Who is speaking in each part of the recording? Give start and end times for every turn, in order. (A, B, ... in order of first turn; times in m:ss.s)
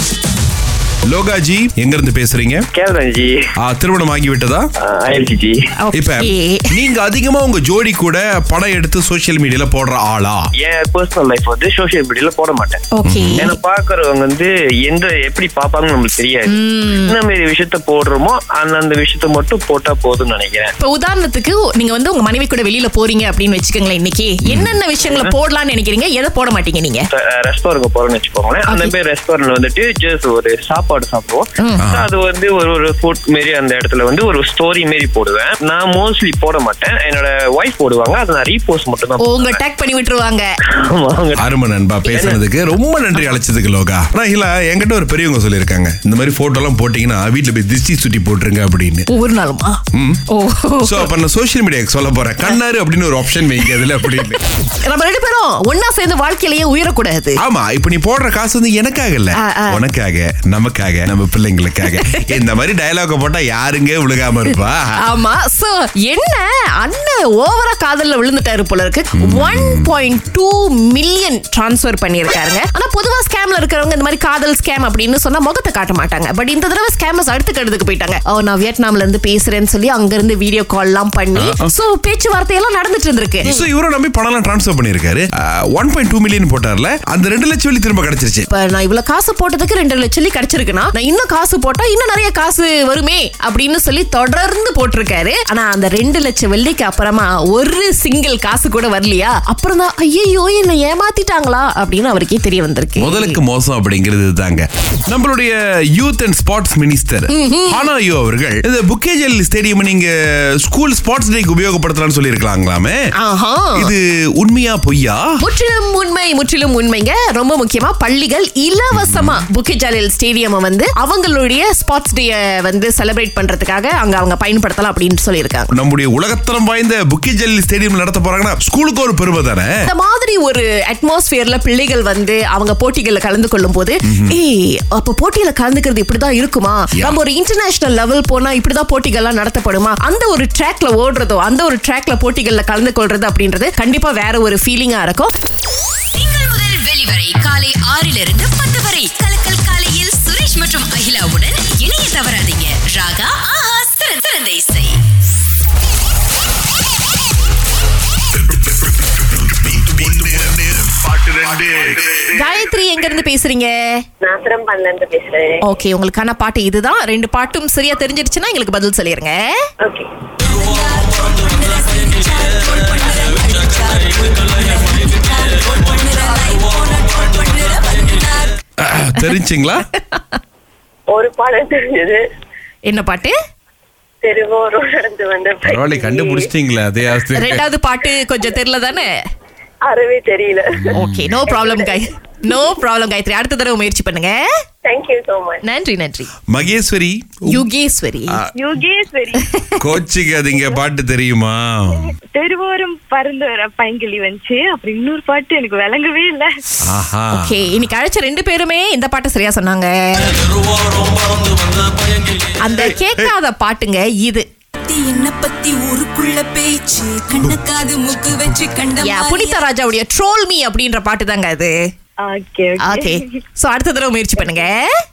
0:01.1-0:02.7 A
0:02.7-0:03.4 B
0:03.6-0:04.7 A
0:04.8-0:05.6 B
0:05.8-0:06.8 C
0:05.9-0:10.5 A
0:10.6-0:12.8 B
0:13.0-0:13.5 C
0:13.0-0:13.5 A
0:13.4-0:20.7 B
0:16.5-0:17.2 C
0:20.8-0:27.0 C
0:24.4-0:24.8 A
0:27.1-0:39.6 B
0:28.7-0:28.9 C
0:31.6-0:31.9 C
0:31.8-0:32.1 A
0:39.2-0:40.5 C
0:40.7-0:41.5 B
0:41.4-0:49.1 A
0:42.0-0:42.4 B
0:49.1-0:51.1 C
0:49.9-0:50.2 A
0:50.8-0:54.4 A
0:54.8-0:57.4 C
0:57.4-1:05.0 A
0:59.4-0:59.8 C
1:01.9-1:02.2 C
1:05.0-1:23.6 C
1:09.2-1:09.9 A
1:21.4-1:21.7 A
1:23.4-1:28.5 A
1:28.5-1:43.4 C
1:43.0-1:53.0 A
1:47.3-1:47.8 C
1:53.2-1:53.9 C
1:53.8-1:55.3 A
1:55.4-2:05.7 C
1:58.9-1:59.4 A
2:05.8-2:09.7 A
2:09.9-2:25.3 C
2:14.1-2:14.4 A
2:16.9-2:17.2 A
2:26.1-2:35.0 D
2:38.6-2:42.3 A
2:42.3-2:44.0 C
2:44.2-2:45.6 E
2:45.6-2:49.5 C
2:49.8-2:50.1 E
2:50.4-2:58.5 D
2:58.8-2:59.9 A
3:01.1-3:02.2 E
3:02.9-3:03.4 C
3:04.2-3:06.5 E
3:05.6-3:07.6 A
3:07.4-3:09.1 C
3:09.8-3:11.0 E
3:10.8-3:11.4 A
3:10.9-3:14.4 C
3:11.5-3:12.0 E
3:14.8-3:15.6 E
3:15.6-3:16.3 C
3:16.5-3:17.6 A
3:17.5-3:18.4 C
3:18.6-3:19.6 F
3:19.8-3:22.1 A
3:22.3-3:26.5 F
3:26.8-3:27.5 A
3:27.3-3:30.4 C
3:32.6-3:34.5 C
3:32.9-3:33.3 A
3:34.9-3:39.6 D
3:39.0-3:41.7 C
3:42.2-3:43.3 F
3:42.8-3:44.8 C
3:44.4-3:44.7 F